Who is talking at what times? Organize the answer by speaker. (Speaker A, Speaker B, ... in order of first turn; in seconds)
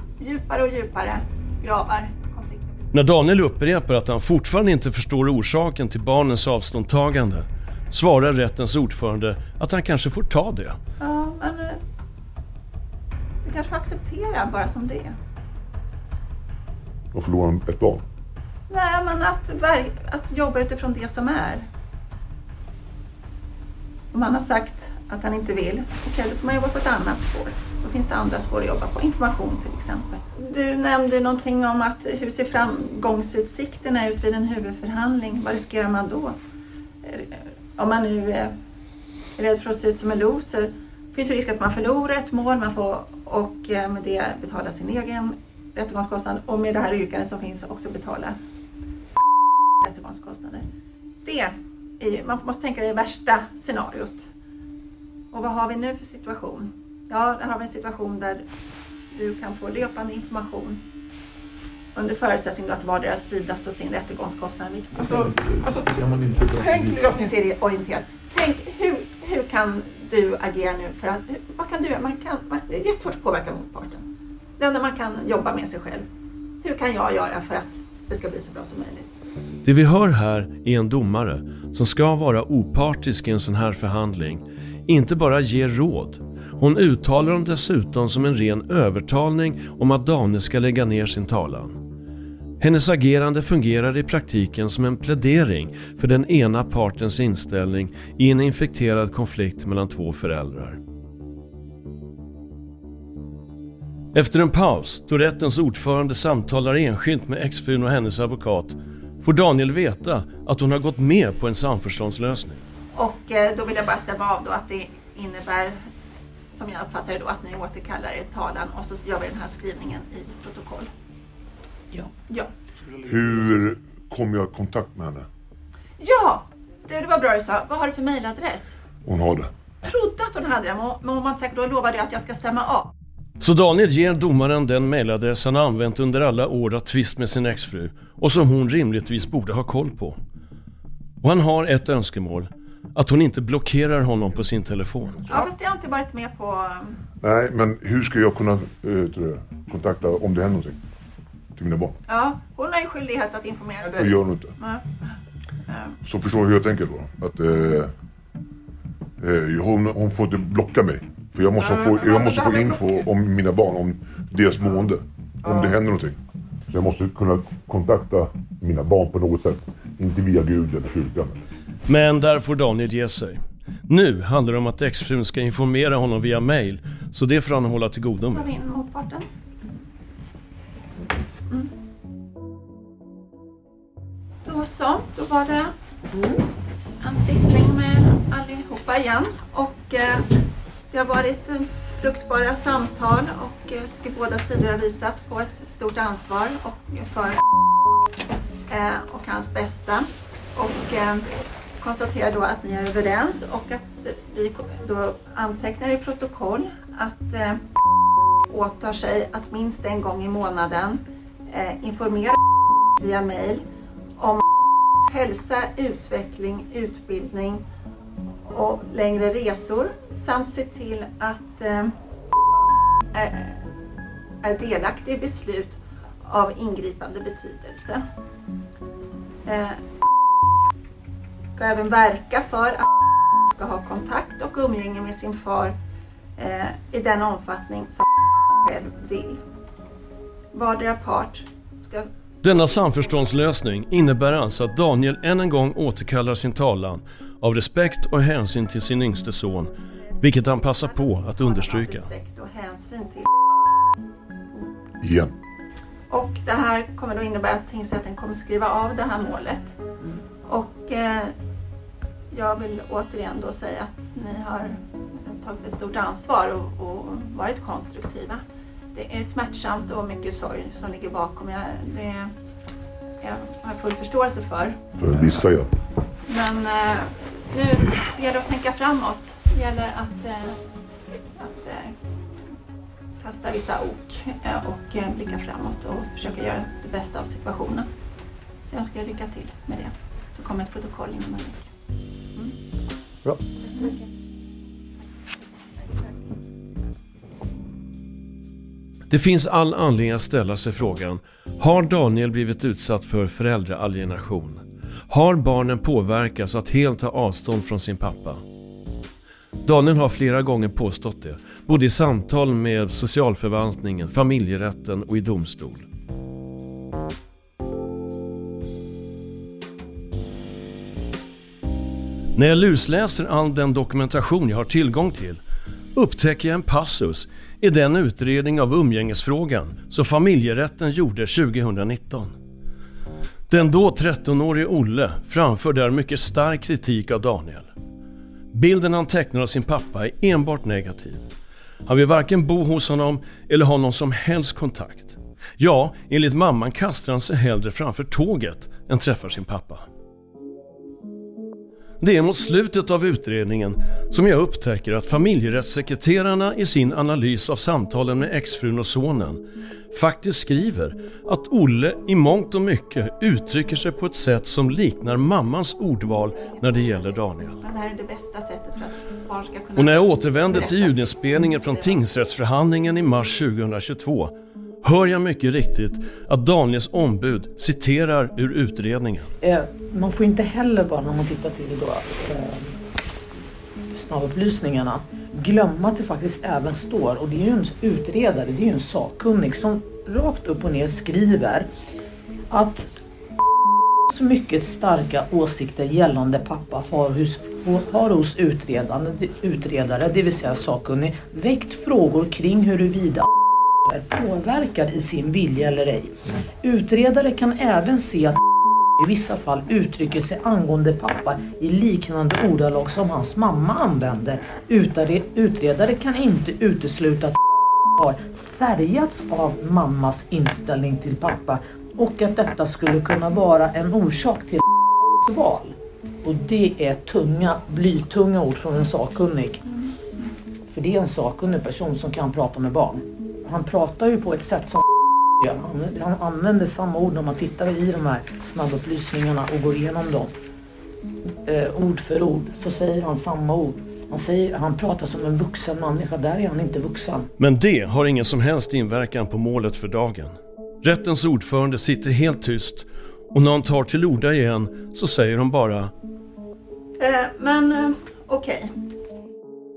Speaker A: 0.2-2.9, 11.0-11.8, 13.4-15.1, 18.7-21.6, 24.1-36.4, 37.0-38.6, 39.4-48.4, 49.8-50.6, 51.2-54.3, 55.3-58.5, 59.1-60.8, 61.9-65.4, 66.4-74.0, 74.6-76.1, 76.6-79.1, 112.9-115.8, 116.5-120.9, 126.0-128.7, 129.8-132.9, 145.3-147.0, 152.1-155.1, 155.7-156.0, 178.3-179.2, 184.4-185.7, 187.0-190.3, 190.9-197.4, 198.7-201.3, 201.8-207.6, 208.5-212.4, 212.9-213.6, 214.2-214.4, 215.0-217.6, 218.5-221.9, 223.1-223.6, 224.4-228.0, 229.4-229.8, 231.6-232.9, 233.5-235.8, 236.4-238.1, 238.6-239.4, 240.5-242.9, 250.2-253.3, 256.1-259.7, 260.4-261.3, 262.3-268.4, 268.9-272.3, 273.2-274.8, 276.3-280.6, 281.4-281.9, 283.2-287.9, 288.6-291.7, 366.3-372.0, 457.0-458.7
Speaker B: 2.9-10.8, 79.6-91.8, 92.6-100.8, 104.1-112.6, 133.4-140.2, 141.2-145.3, 171.9-178.5, 242.4-252.1, 299.1-308.4, 309.6-315.9, 322.4-325.4, 325.9-332.3, 333.5-337.7, 338.5-341.2, 341.9-349.8, 352.0-367.6, 369.8-379.3, 447.4-455.9
Speaker C: 17.1-18.0, 123.0-125.2, 129.0-129.5, 147.2-150.8, 151.6-152.0, 153.9-154.5, 156.0-157.9, 159.2-166.2, 166.7-171.4, 255.0-255.3, 275.0-275.7
Speaker D: 64.9-67.3, 161.6-163.1, 165.4-165.8
Speaker E: 379.4-382.7, 383.9-391.7, 392.5-392.9, 394.1-403.3, 403.9-408.4, 409.0-417.4, 418.0-424.6, 425.2-429.6, 430.7-434.8, 435.4-440.3, 441.4-447.3